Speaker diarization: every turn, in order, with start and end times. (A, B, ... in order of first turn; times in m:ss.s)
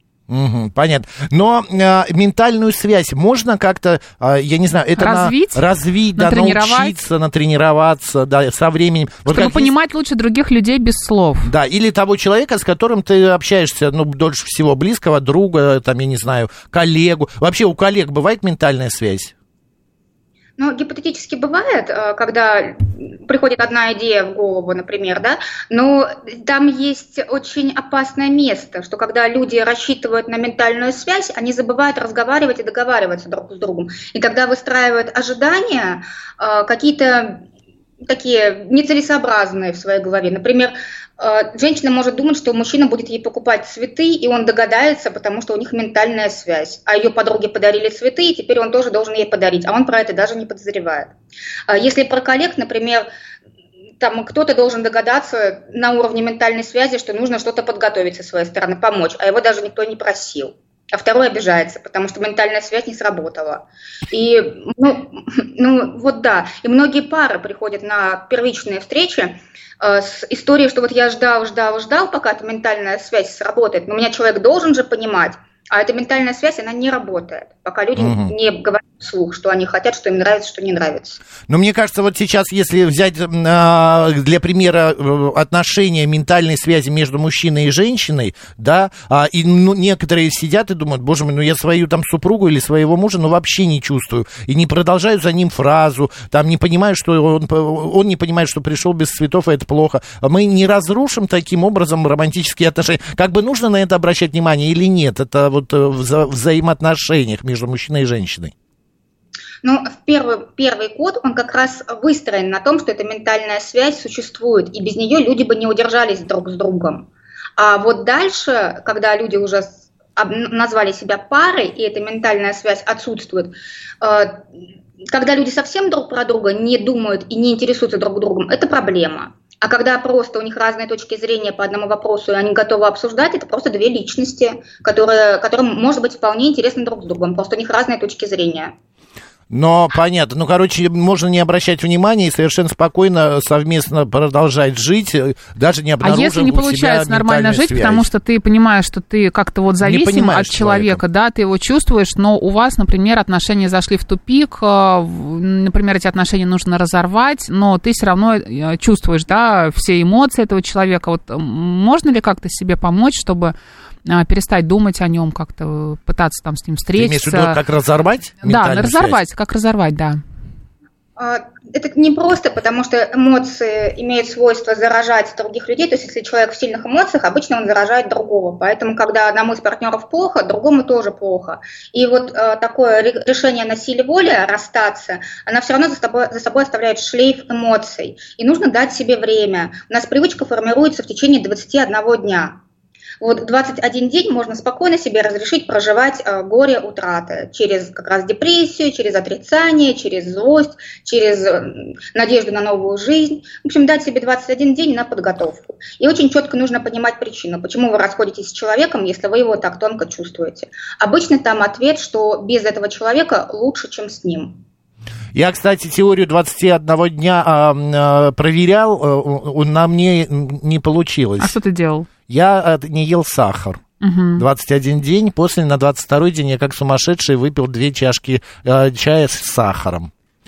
0:00.3-0:09.7 A
0:05.0-0:05.6 B
0:06.2-0:07.0 B
0:09.3-0:11.5 B
0:11.4-0:19.3 A
0:20.6-0:37.4 C
0:38.0-0:51.1 C
0:51.7-0:53.1 C
0:54.0-1:21.2 C
1:18.0-1:18.3 A
1:21.4-1:48.5 A
1:49.6-2:04.5 C
2:05.1-2:18.7 C
2:19.5-2:28.1 A
2:26.0-2:47.6 B
2:29.8-2:31.0 A
2:47.0-2:49.2 A
2:48.4-2:50.2 B
2:51.2-3:12.6 C
3:13.2-3:34.6 C
3:35.4-3:41.6 A
3:41.4-3:42.1 B
3:42.3-3:43.8 A
3:44.0-3:44.4 B
3:44.4-3:50.1 A